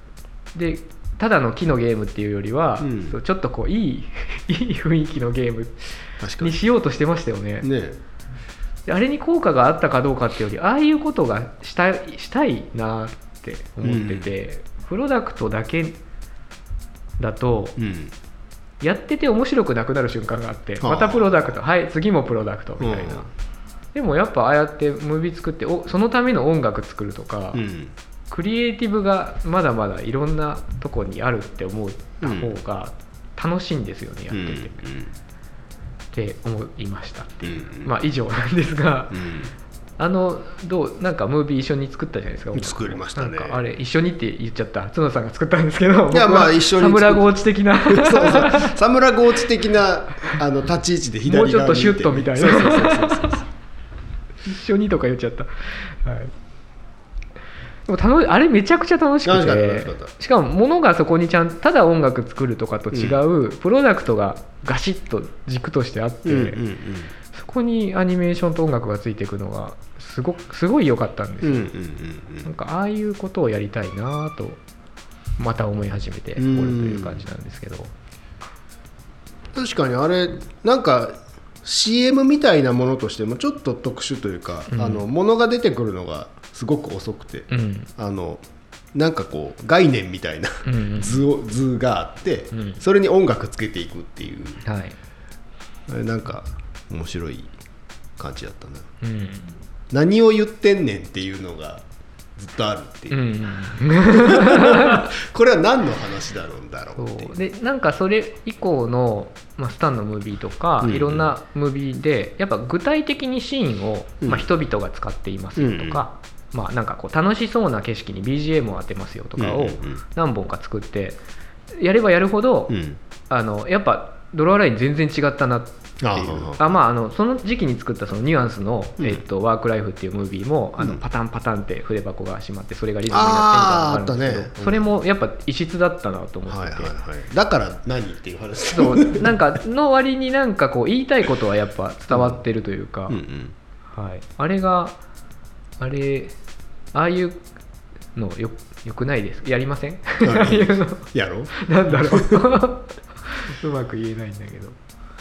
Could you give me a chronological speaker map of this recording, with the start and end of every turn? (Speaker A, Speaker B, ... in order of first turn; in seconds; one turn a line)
Speaker A: 0.6-7.7
Speaker B: 2.8-3.2
Speaker B: 6.2-6.6
Speaker B: 7.6-8.0
Speaker A: 8.9-16.0
Speaker B: 13.8-14.3
Speaker A: 17.2-17.8
Speaker B: 17.8-18.1
Speaker A: 18.8-23.3
Speaker B: 20.8-21.6
Speaker B: 22.8-23.3
Speaker A: 23.9-27.6
Speaker B: 27.5-27.9
Speaker A: 28.3-34.8
Speaker B: 32.2-32.5
Speaker B: 34.3-35.1
Speaker A: 36.1-39.2
Speaker B: 37.4-37.9
Speaker B: 39.1-39.5
Speaker A: 40.0-48.8
Speaker B: 42.5-43.6
Speaker B: 46.1-53.5
Speaker A: 51.3-53.4
Speaker A: 54.5-56.3
Speaker A: 57.9-66.6
Speaker B: 59.2-60.1
Speaker B: 62.9-63.2
Speaker B: 66.2-67.1
Speaker A: 67.3-71.7
Speaker B: 71.4-72.5
Speaker A: 72.4-74.6
Speaker A: 75.4-77.9
Speaker B: 76.4-77.2
Speaker B: 79.5-94.6
Speaker A: 84.7-85.0
Speaker A: 87.5-87.9
Speaker A: 90.7-91.2
Speaker A: 92.5-92.8
Speaker A: 94.6-95.0
Speaker B: 95.9-97.6
Speaker B: 98.2-98.9
Speaker A: 99.0-99.4
Speaker B: 99.9-101.8
Speaker B: 102.4-107.4
Speaker A: 103.1-105.1
Speaker A: 107.0-121.2
Speaker B: 110.8-111.3
Speaker B: 115.6-116.0
Speaker B: 119.4-120.0
Speaker A: 121.8-122.8
Speaker B: 122.7-123.0
Speaker A: 123.3-136.9
Speaker B: 126.0-126.8
Speaker B: 133.1-134.9
Speaker B: 136.5-139.3
Speaker A: 138.7-143.2
Speaker B: 142.1-142.4
Speaker B: 143.1-143.6
Speaker A: 143.9-145.0
Speaker A: 145.8-146.3
Speaker A: 146.9-147.4
Speaker A: 148.2-154.8
Speaker B: 150.2-152.5